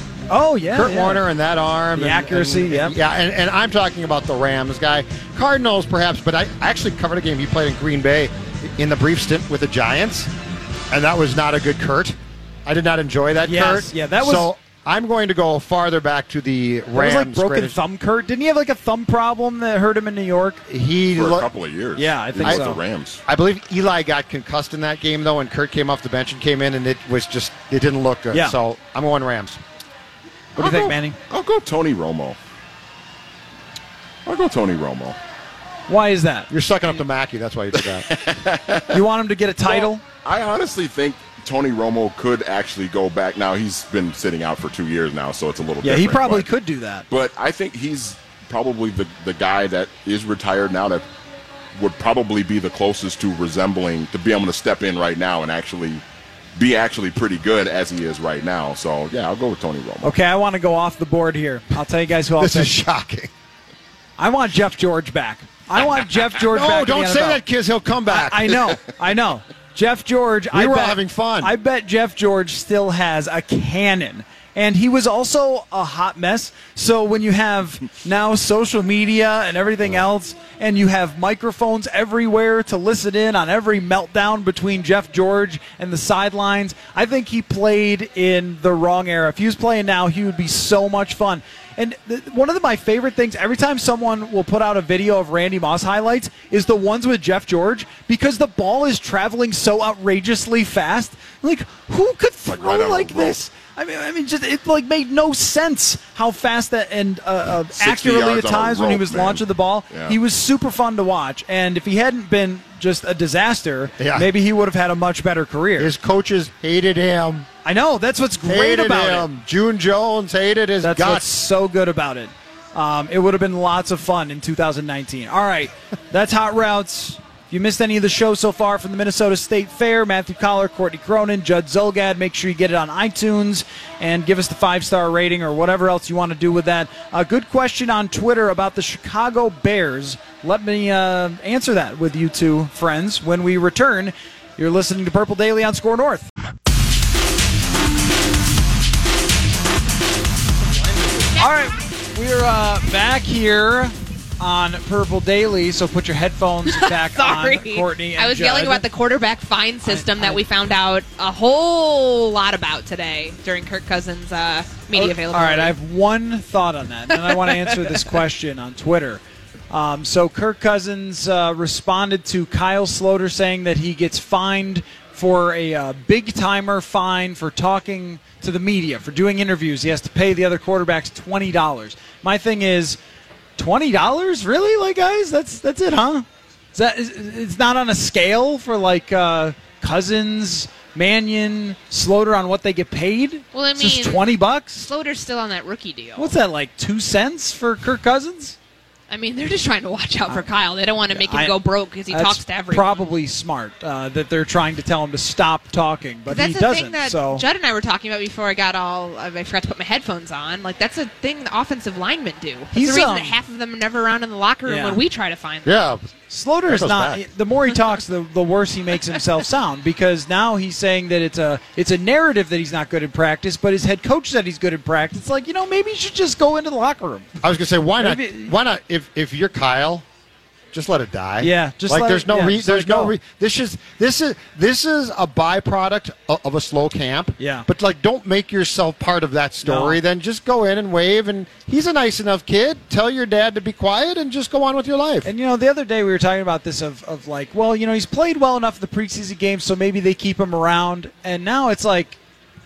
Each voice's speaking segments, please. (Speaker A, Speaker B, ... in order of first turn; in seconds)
Speaker A: 0.3-1.2, 1.9-3.0, 13.4-14.5, 16.9-20.6, 22.0-22.8, 28.3-28.6, 30.6-31.2, 35.9-36.5, 38.9-40.0, 45.8-47.0, 60.0-62.7, 64.2-67.4, 68.1-115.9, 117.7-119.3, 120.8-146.3, 151.4-158.8, 159.8-160.4, 164.9-183.0, 183.6-194.9, 196.2-198.6, 201.1-201.6, 202.1-207.4, 212.7-213.3, 214.7-215.0, 216.3-227.4, 228.0-228.6, 231.4-233.1, 237.4-237.7, 239.6-240.0, 245.2-252.2
Speaker B: 0.7-10.3, 10.9-17.8, 20.7-21.5, 22.4-22.7, 23.3-29.6, 30.6-30.9, 36.5-38.1, 62.4-63.3, 66.4-68.7, 70.5-71.5, 114.0-114.3, 115.8-117.5, 118.5-121.3, 150.6-151.4, 215.7-216.1, 216.7-217.2, 227.4-230.1, 230.7-245.3
Speaker C: 21.1-23.2, 31.3-32.4, 34.3-35.2, 37.9-39.0, 39.7-46.5, 47.1-51.0, 51.8-56.0, 56.6-60.1, 102.5-103.4, 107.8-110.2
Speaker D: 156.7-165.7, 167.1-168.2, 193.5-196.3, 199.1-203.0, 206.3-215.9